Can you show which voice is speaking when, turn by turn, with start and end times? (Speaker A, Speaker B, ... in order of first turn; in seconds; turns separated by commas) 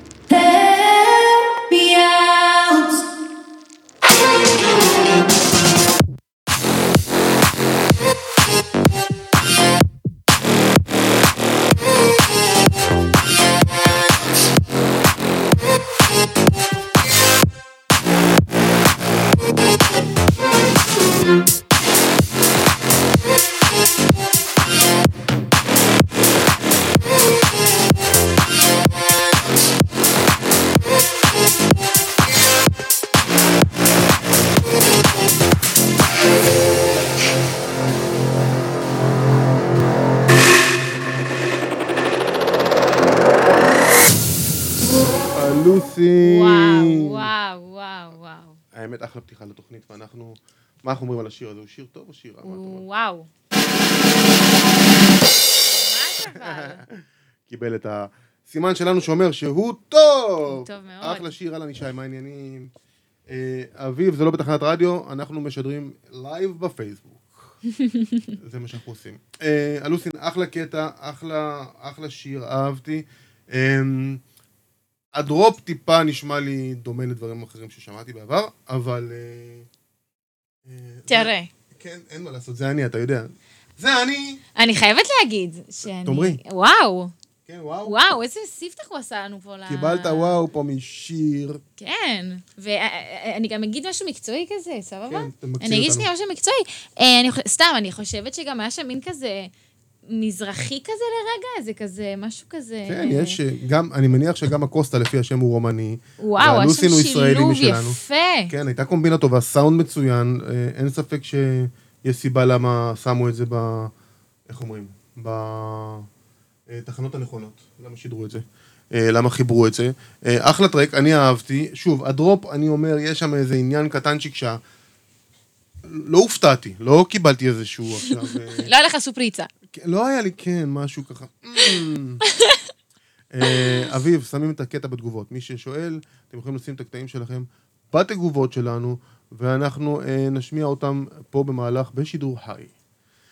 Speaker A: 0.3-3.1, Speaker B: 45.2-47.3, Speaker C: 46.2-48.6, Speaker B: 48.7-52.8, Speaker C: 52.4-53.3, Speaker C: 55.6-56.8, Speaker B: 56.2-62.7, Speaker C: 60.5-61.3, Speaker B: 63.3-67.5, Speaker B: 68.4-74.2, Speaker B: 75.1-79.7, Speaker B: 80.7-84.4, Speaker C: 81.1-81.5, Speaker C: 84.6-87.1, Speaker B: 85.8-86.4, Speaker B: 87.5-88.0, Speaker C: 87.8-90.4, Speaker B: 89.7-91.6, Speaker C: 91.8-99.5, Speaker B: 95.1-96.1, Speaker C: 100.1-103.4, Speaker B: 102.9-113.9, Speaker C: 106.2-108.5, Speaker B: 114.5-116.1, Speaker B: 116.7-124.6, Speaker B: 125.8-128.7, Speaker C: 128.6-129.5, Speaker B: 129.7-132.2, Speaker B: 133.3-142.7